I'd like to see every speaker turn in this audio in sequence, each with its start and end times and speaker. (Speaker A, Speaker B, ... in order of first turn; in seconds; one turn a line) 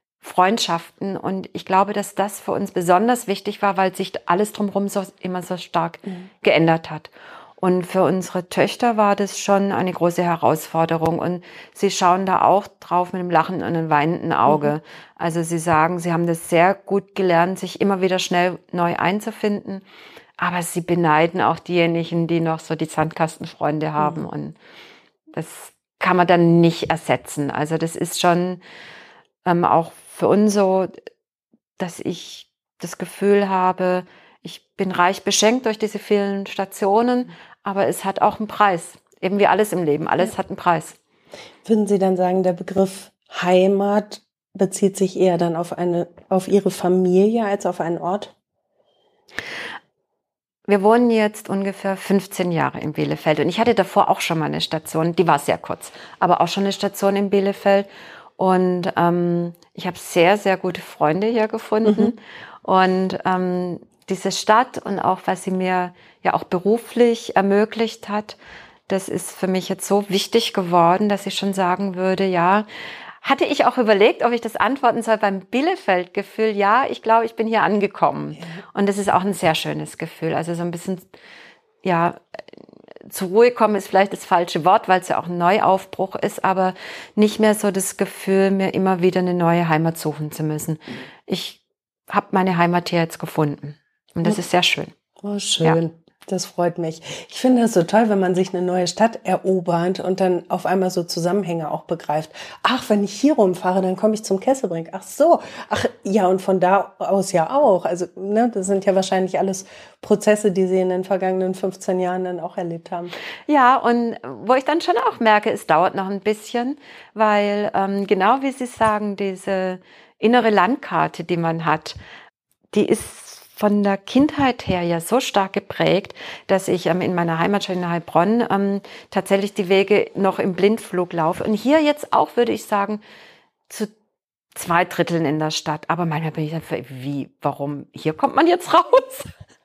Speaker A: 0.2-19.8
Speaker A: 20.4-24.6
Speaker B: 24.0-24.2
Speaker A: 25.3-28.6
Speaker A: 29.4-30.9
Speaker A: 31.8-41.0
Speaker B: 41.6-48.3
Speaker A: 50.7-57.9
Speaker A: 58.4-68.4
Speaker B: 61.9-62.1
Speaker A: 68.9-72.7
Speaker A: 73.2-81.1
Speaker B: 78.3-78.6
Speaker A: 81.8-82.4
Speaker A: 83.0-94.9
Speaker B: 95.2-113.1
Speaker A: 113.5-122.0
Speaker A: 122.7-133.0
Speaker A: 134.5-139.3